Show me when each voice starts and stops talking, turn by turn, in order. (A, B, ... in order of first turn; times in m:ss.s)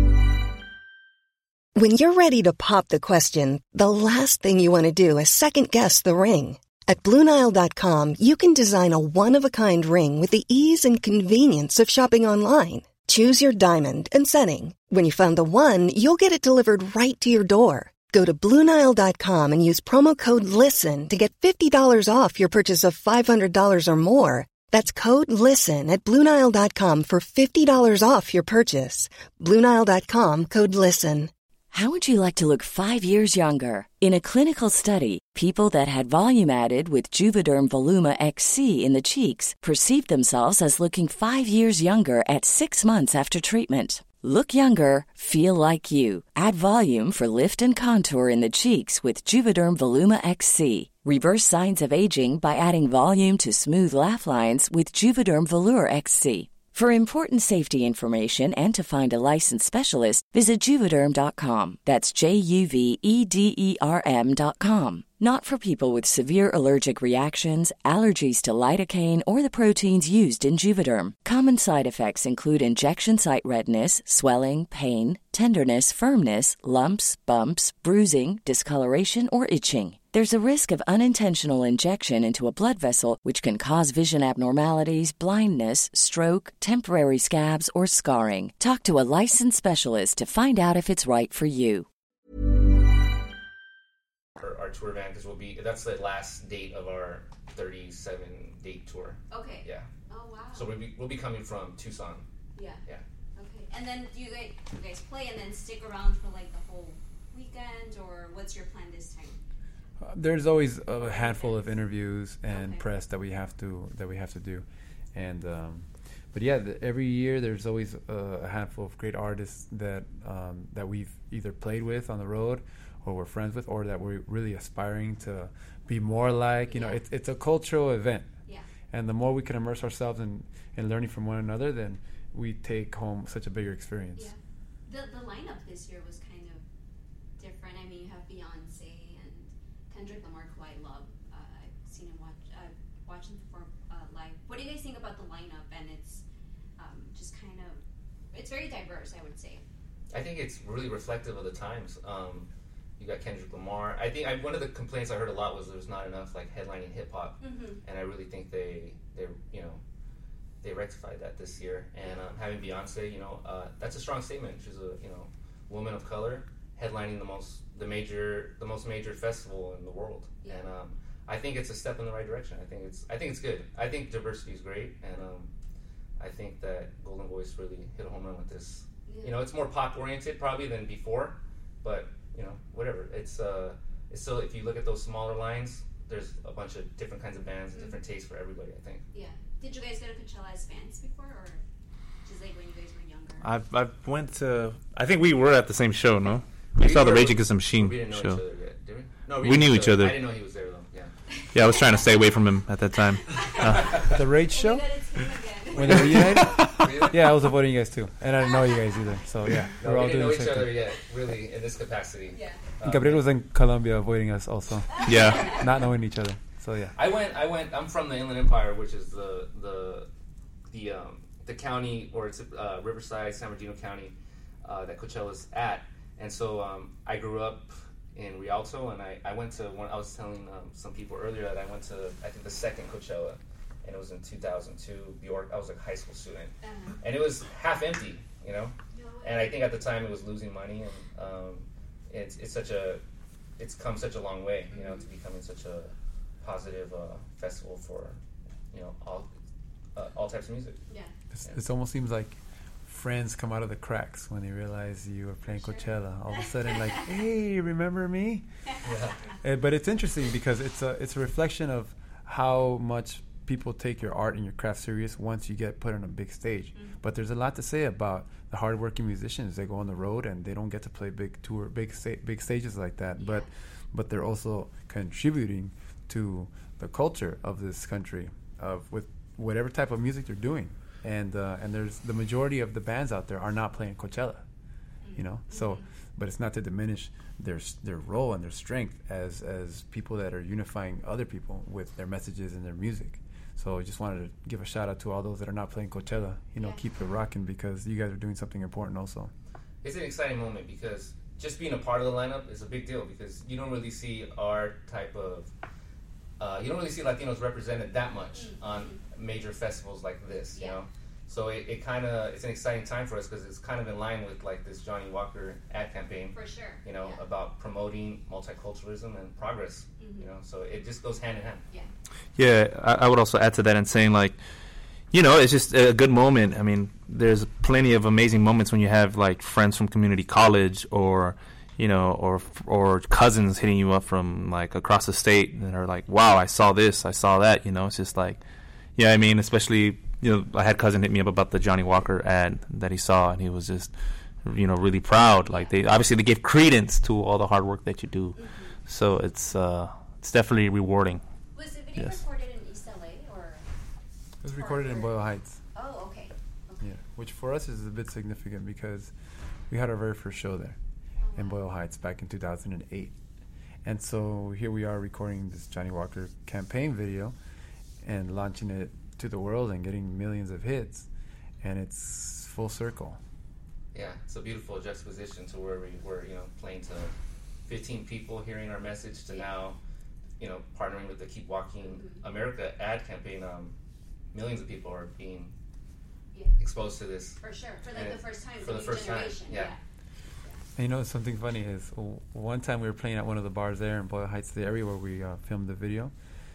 0:01.7-0:31.3 A
0:31.7-1:31.8 B
1:34.4-1:39.9 C
1:39.3-1:40.7 D
1:40.5-1:42.2 C
1:42.5-1:42.8 D
1:43.4-1:49.4 D
1:50.0-2:08.3 E
1:51.0-1:51.8 D
1:52.5-1:52.8 D
2:06.7-2:07.0 D
2:08.9-2:14.3 E
2:14.1-2:16.6 D
2:17.4-2:26.2 D
2:26.8-2:27.8 D
2:28.3-2:29.6 D
2:30.1-2:39.8 C
2:37.4-2:37.8 D
2:40.6-2:55.5 C
2:42.0-2:42.3 D
2:50.4-2:50.7 D
2:56.2-3:09.0 C
2:59.0-2:59.3 D
3:09.1-3:11.6 D
3:12.2-3:13.5 D
3:13.4-3:18.4 F
3:16.8-3:21.1 C
3:19.4-3:20.2 F
3:21.5-3:24.1 F
3:23.3-3:24.0 D
3:23.7-3:24.1 C
3:23.9-3:24.9 E
3:24.5-3:26.1 D
3:25.7-3:30.9 E
3:25.7-3:27.3 C
3:26.1-3:26.8 F
3:29.8-3:33.2 C
3:32.3-3:32.6 D
3:32.8-3:37.0 E
3:35.0-3:35.6 F
3:35.0-3:35.6 D
3:36.9-3:40.1 C
3:40.7-4:03.0 C
3:56.6-3:57.0 D
3:58.9-3:59.5 D
4:03.6-4:08.2 C
4:04.7-4:05.1 D
4:08.7-4:09.3 C
4:10.0-4:10.8 C
4:11.3-4:18.5 E
4:15.5-4:17.0 D
4:18.8-4:19.2 C
4:19.4-4:44.4 E
4:33.2-4:33.5 D
4:45.0-4:45.9 D
4:45.1-4:59.3 E
4:59.8-5:05.5 C
5:06.4-5:21.6 C
5:08.3-5:09.0 D
5:10.5-5:10.8 D
5:16.3-5:17.2 D
5:20.0-5:20.3 D
5:22.4-5:24.4 F
5:25.1-5:38.4 F
5:39.0-5:51.2 F
5:45.4-5:45.7 D
5:48.4-5:48.8 D
5:51.5-5:53.6 D
5:54.4-5:55.6 E
5:54.5-5:55.1 D
5:55.7-5:57.0 D
5:56.8-5:59.1 E
5:59.7-6:00.8 E
6:01.2-6:01.6 D
6:01.3-6:03.1 E
6:03.8-6:07.4 E
6:08.0-6:11.1 E
6:11.6-6:13.2 E
6:13.9-6:17.1 C
6:17.6-6:19.8 C
6:20.4-6:23.7 C
6:21.8-6:22.2 D
6:24.3-6:25.5 C
6:26.3-6:26.6 D
6:26.6-6:29.7 C
6:27.4-6:29.8 D
6:30.8-6:36.1 E